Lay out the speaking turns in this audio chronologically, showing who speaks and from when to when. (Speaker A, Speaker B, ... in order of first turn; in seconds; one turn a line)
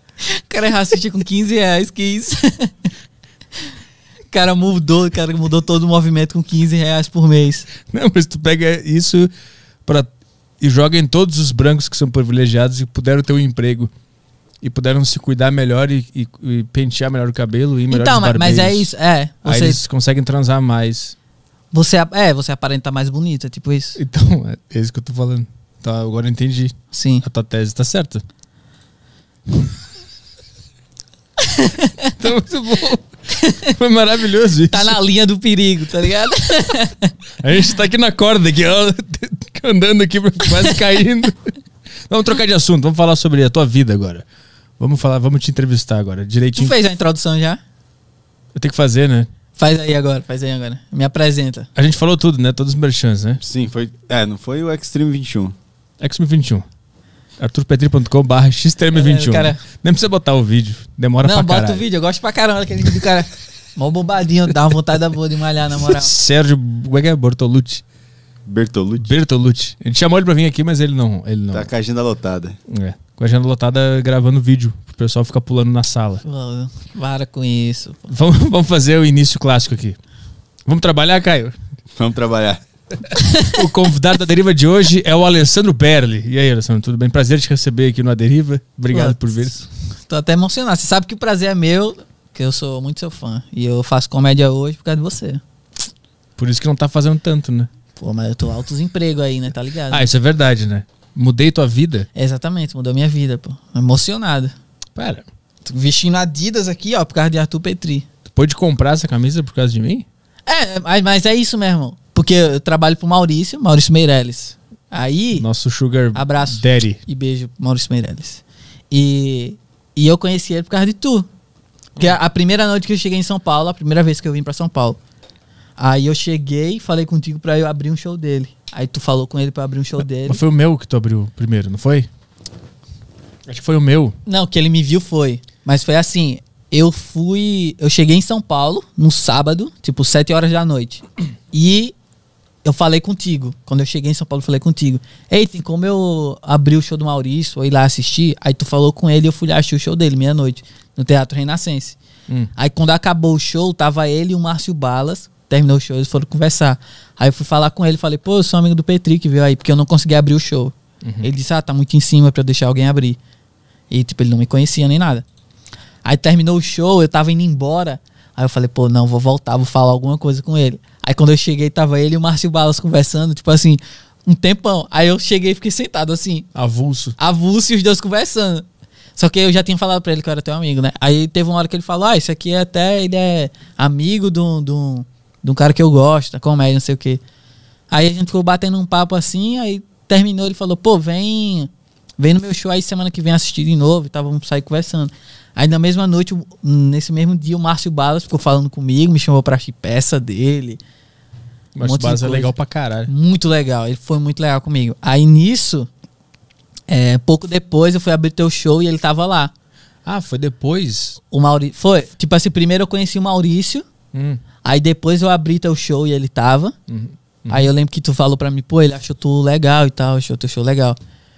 Speaker A: 0.2-2.7
Speaker A: 4.3-7.7
Speaker B: 7.9-9.3
Speaker B: 10.6-13.9
Speaker B: 14.6-18.9
Speaker A: 17.9-19.8
Speaker B: 19.4-21.1
Speaker A: 21.7-24.0
Speaker B: 24.0-28.2
Speaker A: 26.9-27.2
Speaker A: 31.6-32.1
Speaker B: 32.2-33.1
Speaker B: 33.7-35.0
Speaker A: 34.7-37.1
Speaker B: 37.4-41.4
Speaker B: 42.1-44.2
Speaker B: 44.8-46.8
Speaker A: 46.5-47.6
Speaker B: 48.5-49.3
Speaker A: 49.6-51.7
Speaker B: 51.8-53.4
Speaker C: 53.4-55.6
Speaker B: 56.0-56.7
Speaker B: 57.4-61.8
Speaker A: 58.9-59.6
Speaker A: 61.2-66.1
Speaker B: 66.0-67.8
Speaker C: 68.5-69.2
Speaker B: 69.0-71.7
Speaker C: 71.5-72.6
Speaker B: 72.7-76.2
Speaker A: 76.2-78.0
Speaker B: 78.1-80.0
Speaker B: 80.7-81.5
Speaker C: 82.0-82.6
Speaker B: 83.5-89.6
Speaker A: 88.9-95.4
Speaker B: 96.4-97.7
Speaker A: 98.0-100.1
Speaker B: 99.9-102.1
Speaker A: 102.2-104.5
Speaker B: 105.0-105.2
Speaker A: 105.7-108.1
Speaker B: 108.3-110.1
Speaker A: 110.5-115.5
Speaker B: 115.3-117.0
Speaker A: 116.2-121.3
Speaker A: 122.0-125.0
Speaker A: 125.8-130.4
Speaker B: 130.1-132.1
Speaker B: 133.5-134.2
Speaker A: 134.3-141.9
Speaker A: 142.6-152.0
Speaker A: 152.6-163.2
Speaker B: 161.1-161.3
Speaker A: 163.9-165.2
Speaker A: 166.1-176.5
Speaker B: 176.6-177.2
Speaker A: 177.2-178.7
Speaker A: 179.2-187.2
Speaker A: 187.9-200.8
Speaker B: 201.8-203.1
Speaker A: 201.8-202.5
Speaker A: 203.1-205.9
Speaker A: 206.9-209.5
Speaker B: 210.1-211.2
Speaker A: 211.3-213.9
Speaker B: 214.1-214.4
Speaker A: 214.6-216.8
Speaker B: 216.9-217.7
Speaker A: 217.5-221.0